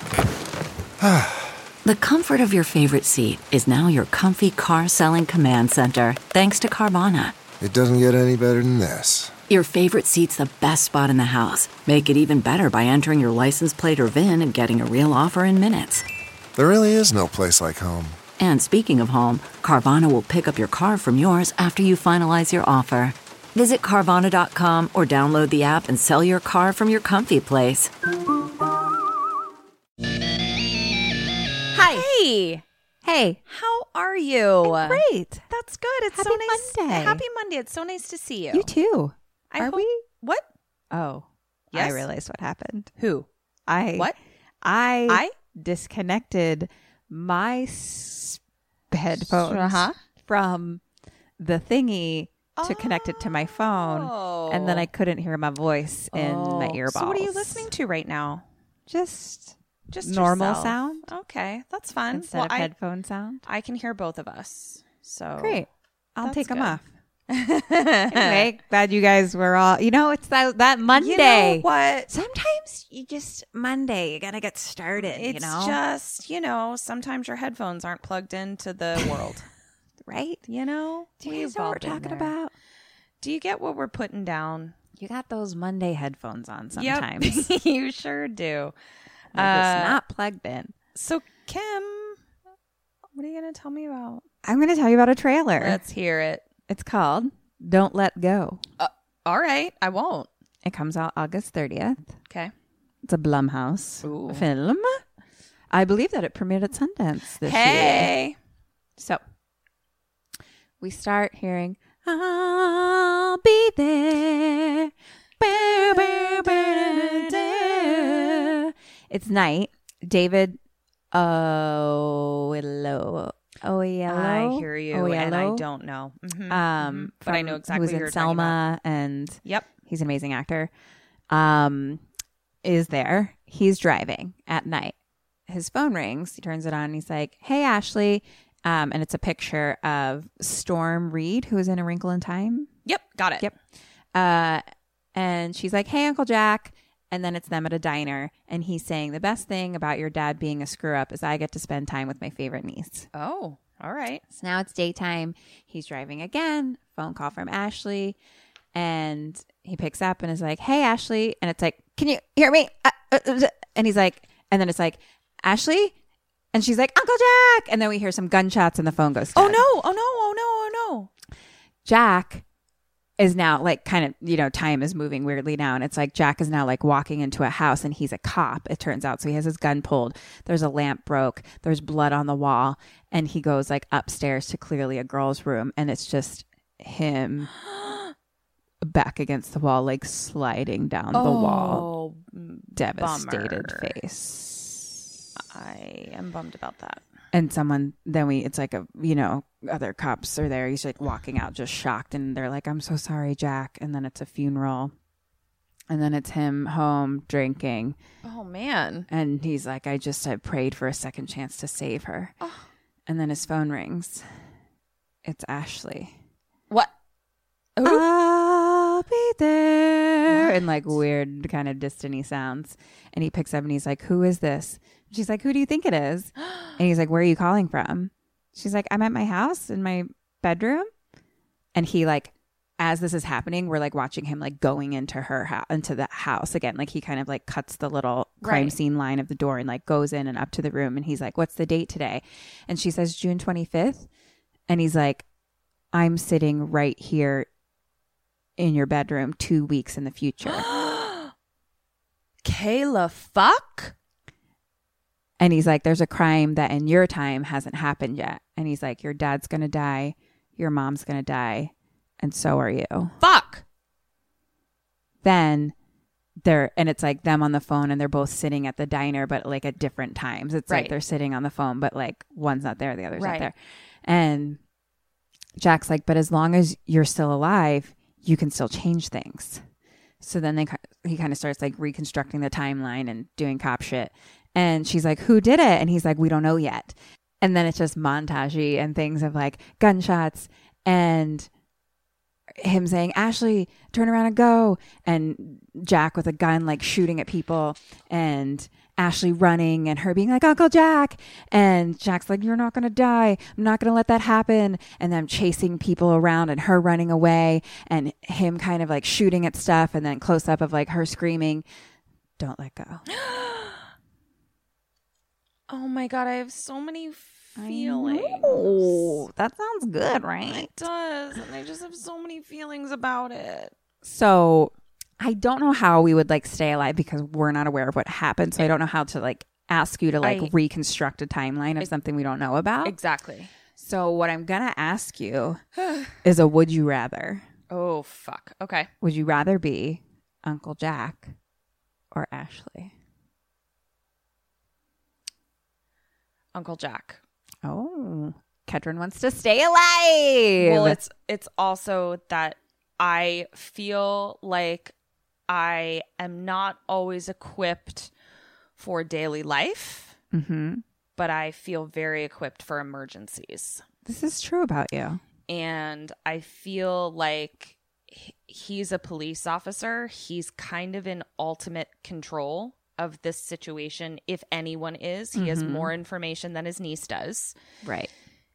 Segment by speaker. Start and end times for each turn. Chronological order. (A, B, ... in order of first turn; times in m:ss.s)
0:01.0-0:01.3 A
0:01.8-0:07.4 B
0:07.5-0:09.3 A
0:09.5-0:16.0 B
0:16.6-0:18.2 A
0:18.4-0:27.9 B
0:31.7-0:32.1 C
0:31.8-0:32.6 D
0:33.0-0:33.4 C
0:33.5-0:38.7 D
0:34.6-0:35.4 C
0:36.1-0:37.2 C
0:38.5-0:40.0 C
0:39.5-0:40.4 D
0:40.9-0:42.9 C
0:41.7-0:42.1 D
0:43.0-0:43.3 D
0:43.7-0:48.4 C
0:45.1-0:45.3 D
0:48.9-0:50.8 C
0:49.2-0:50.0 D
0:51.4-0:57.7 C
0:52.6-0:54.9 D
0:56.1-0:58.4 D
0:58.9-1:01.1 C
0:59.9-1:02.7 D
1:02.1-1:03.4 C
1:03.4-1:05.7 D
1:05.4-1:06.8 C
1:06.2-1:06.8 D
1:07.3-1:08.5 D
1:08.1-1:15.8 C
1:10.9-1:12.1 D
1:15.0-1:19.5 D
1:20.1-1:20.4 C
1:20.5-1:22.3 D
1:21.2-1:22.5 C
1:23.2-1:24.8 D
1:25.0-1:27.5 C
1:26.7-1:28.8 D
1:29.3-1:30.7 C
1:29.3-1:30.0 D
1:31.0-1:32.2 D
1:33.1-1:34.2 D
1:34.4-1:35.8 C
1:35.6-1:36.5 D
1:36.7-1:38.6 C
1:38.8-1:40.3 D
1:40.6-1:42.1 C
1:43.0-1:45.0 C
1:44.0-1:44.4 D
1:45.7-1:48.2 C
1:47.4-1:48.4 D
1:50.8-2:00.6 C
2:01.1-2:05.7 C
2:04.1-2:08.6 D
2:06.5-2:10.7 C
2:11.3-2:12.0 C
2:12.6-2:15.0 C
2:15.5-2:22.7 C
2:22.9-2:23.5 D
2:24.2-2:24.6 C
2:25.2-2:33.1 C
2:33.1-2:34.2 D
2:34.3-2:38.2 C
2:38.8-2:45.9 C
2:46.5-2:49.6 C
2:49.3-2:51.1 D
2:51.8-2:52.4 C
2:53.2-3:07.5 C
3:07.7-3:08.0 D
3:08.8-3:11.9 C
3:11.1-3:14.0 D
3:12.8-3:14.9 C
3:15.4-3:17.0 D
3:17.3-3:24.9 C
3:25.9-3:28.0 C
3:28.2-3:29.1 D
3:29.1-3:32.3 C
3:32.4-3:32.7 D
3:33.1-3:34.2 C
3:35.2-3:36.1 C
3:37.8-3:38.1 D
3:37.8-3:50.9 C
3:40.3-3:41.0 D
3:51.8-4:04.1 C
3:58.4-3:58.8 D
4:04.7-4:05.2 C
4:05.9-4:07.5 C
4:08.6-4:10.7 C
4:10.4-4:11.3 D
4:12.4-4:13.9 D
4:15.4-4:23.1 C
4:23.2-4:23.6 D
4:25.2-4:25.7 C
4:26.4-4:34.6 C
4:30.7-4:30.9 D
4:33.1-4:33.5 D
4:35.6-4:39.6 C
4:40.2-4:51.5 C
4:52.6-5:11.7 C
5:12.4-5:13.1 C
5:13.1-5:13.9 D
5:15.7-5:19.2 D
5:17.6-5:20.7 C
5:20.5-5:23.7 D
5:24.0-5:32.9 C
5:30.2-5:30.5 D
5:32.8-5:33.5 D
5:33.8-5:35.6 C
5:36.2-5:37.4 C
5:37.7-5:38.9 D
5:39.0-5:41.3 C
5:42.1-5:42.9 C
5:46.5-5:47.2 D
5:47.6-5:51.0 C
5:50.6-5:54.9 D
5:55.5-5:58.1 D
5:58.8-6:00.1 D
6:00.3-6:00.8 C
6:01.2-6:03.8 D
6:04.0-6:05.2 C
6:05.5-6:17.6 D
6:15.4-6:15.9 C
6:17.8-6:18.1 C